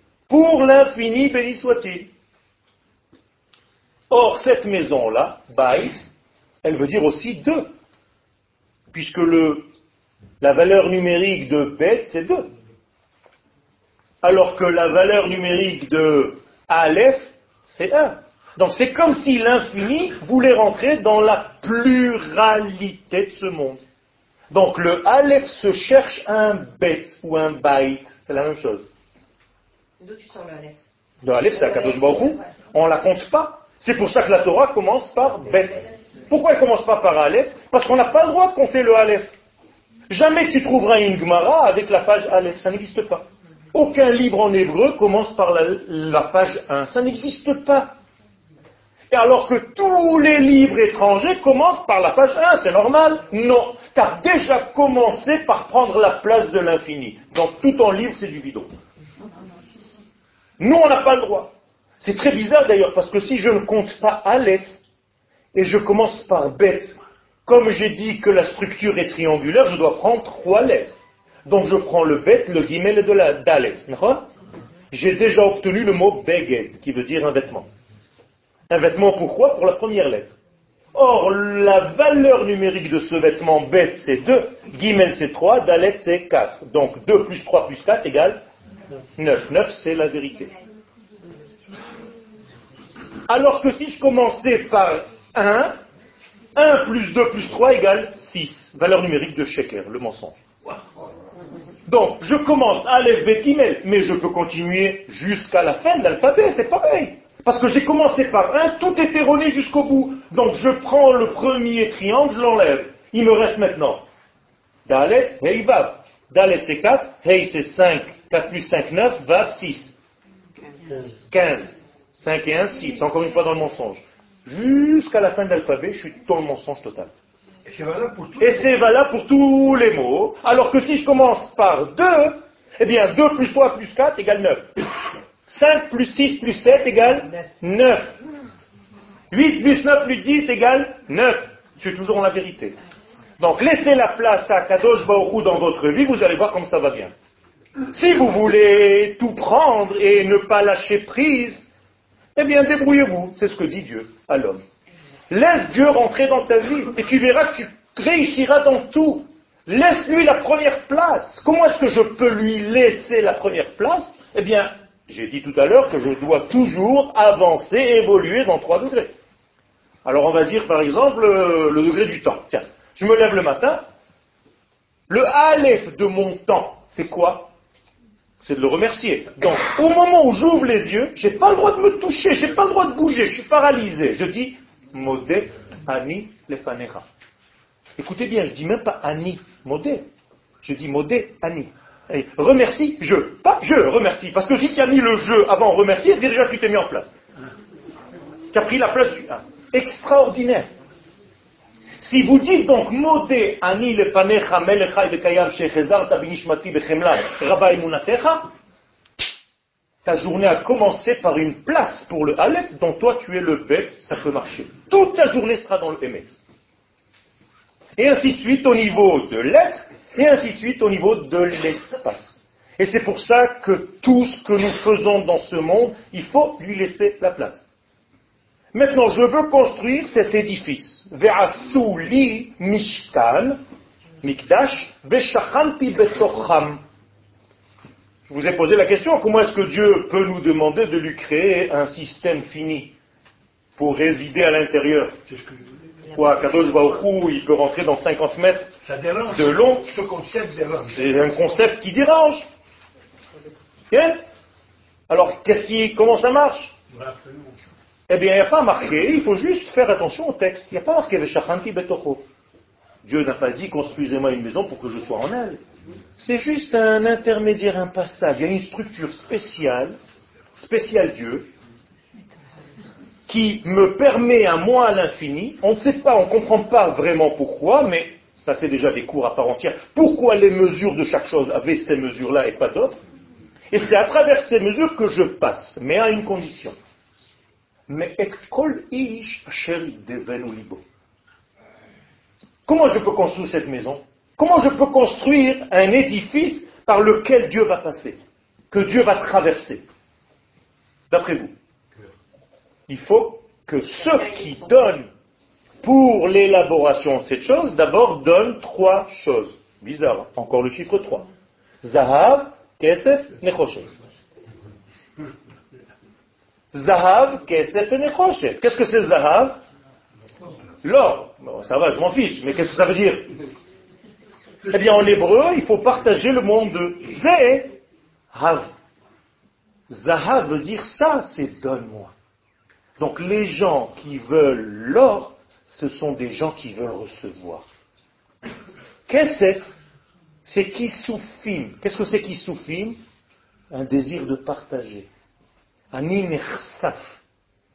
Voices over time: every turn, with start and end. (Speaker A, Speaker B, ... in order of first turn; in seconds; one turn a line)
Speaker A: 0.3-2.1
Speaker A: 4.1-6.0
Speaker A: 6.6-7.7
Speaker A: 8.9-9.7
Speaker A: 10.4-12.5
Speaker A: 14.2-23.8
Speaker A: 24.5-28.9
Speaker B: 30.0-30.8
Speaker A: 31.2-39.3
Speaker B: 31.6-32.0
Speaker A: 40.1-48.0
Speaker A: 49.1-58.7
Speaker A: 60.6-64.7
Speaker A: 65.5-70.9
Speaker A: 71.5-74.3
Speaker A: 74.9-77.7
Speaker A: 78.7-80.3
Speaker A: 80.9-88.4
Speaker A: 89.2-90.5
Speaker A: 93.3-95.7
Speaker A: 96.5-100.4
Speaker A: 101.9-114.0
Speaker A: 114.9-120.0
Speaker A: 121.3-127.1
Speaker C: 127.7-128.8
Speaker A: 128.4-134.7
Speaker A: 135.5-138.1
Speaker A: 139.3-142.8
Speaker A: 143.4-147.1
Speaker A: 147.9-151.7
Speaker A: 152.3-154.6
Speaker A: 155.3-169.1
Speaker A: 170.0-173.8
Speaker A: 175.1-177.5
Speaker A: 178.4-187.0
Speaker A: 188.0-190.1
Speaker A: 190.6-197.2
Speaker A: 198.5-200.7
Speaker A: 202.0-208.5
Speaker A: 210.0-216.4
Speaker A: 218.0-227.6
Speaker A: 228.7-233.6
Speaker A: 234.2-236.8
Speaker A: 238.3-242.9
Speaker A: 243.8-245.1
Speaker C: 245.2-245.8
Speaker A: 246.1-248.7
Speaker C: 248.8-251.1
Speaker A: 249.3-249.9
Speaker A: 250.9-252.4
Speaker A: 253.9-254.2
Speaker A: 255.1-256.8
Speaker C: 256.9-257.6
Speaker A: 258.1-262.2
Speaker A: 263.0-265.6
Speaker A: 266.2-269.9
Speaker A: 270.6-271.5
Speaker A: 273.3-283.0
Speaker A: 283.7-286.8
Speaker A: 287.9-290.8
Speaker A: 292.6-298.2
Speaker A: 298.7-299.8
Speaker A: 301.1-301.5
Speaker A: 302.9-305.1
Speaker B: 304.0-304.7
Speaker A: 305.8-311.3
Speaker A: 311.8-313.9
Speaker A: 316.7-319.6
Speaker A: 320.8-323.3
Speaker A: 324.7-327.7
Speaker A: 328.3-328.7
Speaker A: 329.9-332.1
Speaker A: 333.0-337.6
Speaker A: 339.1-339.6
Speaker A: 340.4-343.0
Speaker A: 343.7-345.1
Speaker A: 345.9-347.2